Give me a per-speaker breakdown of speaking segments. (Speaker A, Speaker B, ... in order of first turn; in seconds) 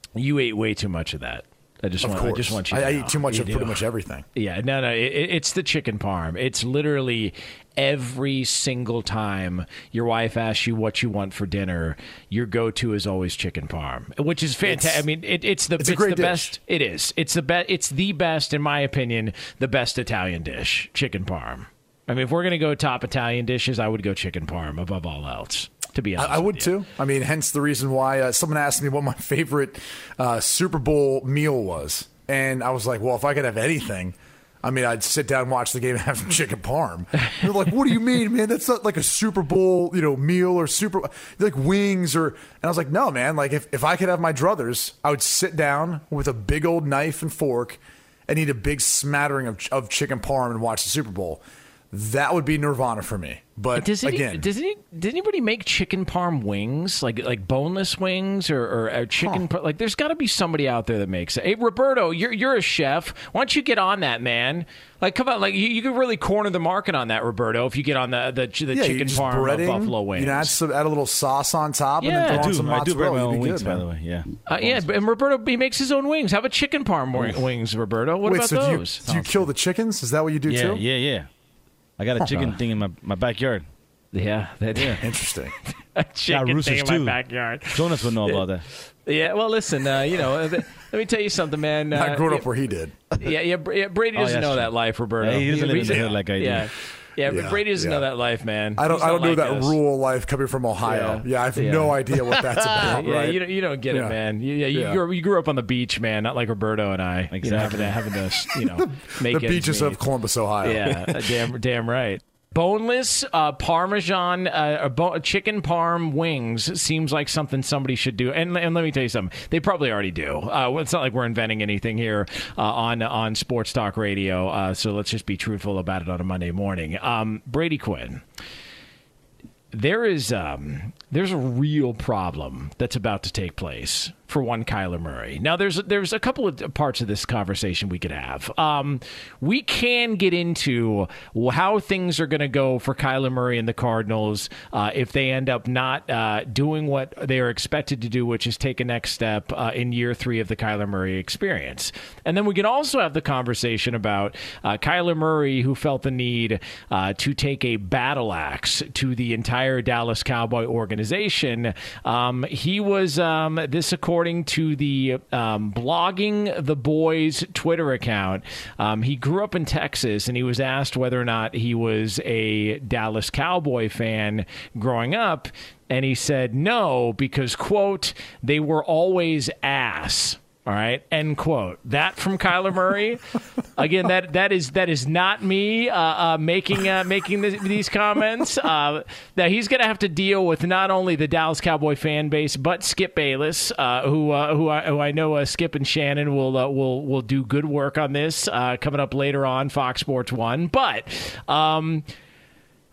Speaker A: 0.1-3.8, 4.3-26.7, 53.7-70.6, 72.0-72.6, 74.5-79.0, 84.1-85.0, 85.9-88.5, 89.0-92.5, 93.2-99.8, 100.8-110.0, 110.6-128.2, 129.7-183.2, 183.8-202.0
Speaker B: 2.0-4.2, 14.6-15.0, 15.8-16.6, 26.1-54.5, 59.2-59.5, 68.7-73.8, 78.2-80.8, 82.2-82.5, 85.0-85.5, 91.9-92.9, 95.8-96.1, 97.3-98.1, 98.8-104.2, 104.7-105.0, 108.5-111.1
Speaker C: 72.0-74.9, 79.0-79.5, 80.5-81.3, 82.0-83.7, 84.7-85.0, 86.3-88.6, 94.1-96.7, 107.3-108.1